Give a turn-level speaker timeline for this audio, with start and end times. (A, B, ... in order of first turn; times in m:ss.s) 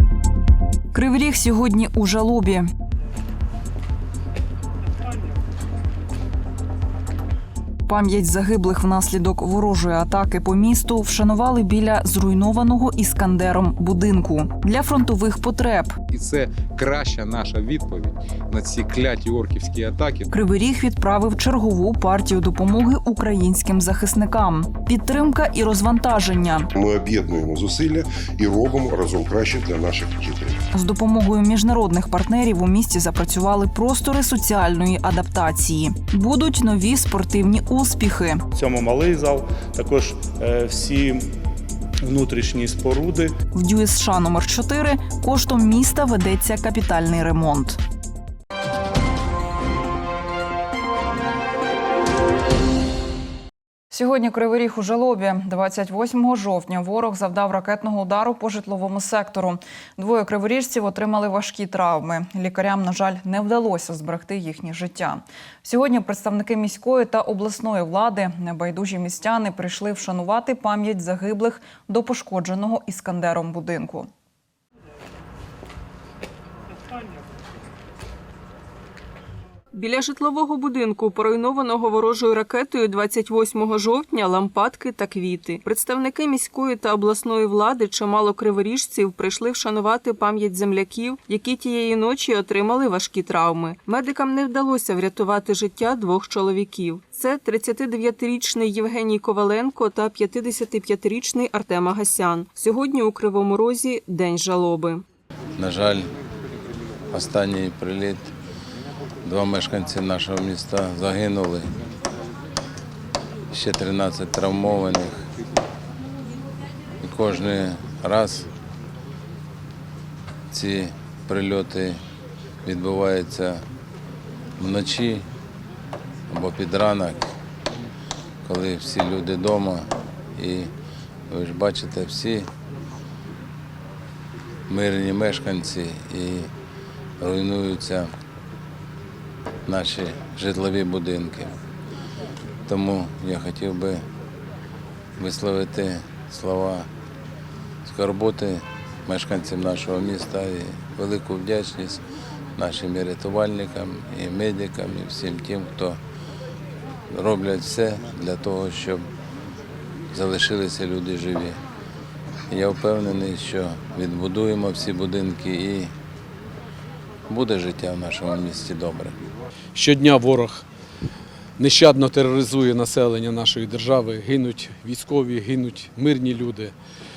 0:00.9-0:02.7 A
0:07.9-0:16.0 A
0:16.1-0:20.3 B
0:20.3-0:26.7 A
0:26.8-0:30.6 C
0:30.7-0:38.4 A
0:38.5-0:41.3 D
0:42.0-0:43.3 D
0:43.5-0:47.8 A
0:53.9-1:14.1 A
1:19.7-1:45.0 E
1:45.6-1:46.1 F
1:47.1-1:48.3 F
1:49.2-1:51.7 F
1:53.5-1:55.2 F
1:57.0-1:58.5 F
2:00.5-2:02.0 F
2:02.6-2:03.6 F
2:04.6-2:05.3 F
2:06.3-2:07.2 F
2:08.4-2:10.7 F
2:11.3-2:12.5 F
2:14.7-2:16.5 F
2:17.2-2:18.1 F
2:19.7-2:21.6 F
2:22.7-2:24.0 F
2:25.2-2:26.9 F
2:27.9-2:32.0 F
2:32.6-2:36.0 F
2:37.1-2:39.1 F
2:40.1-2:41.6 F
2:42.5-2:45.9 F
2:47.3-2:49.2 F
2:49.8-2:50.6 G
2:51.6-2:56.8 G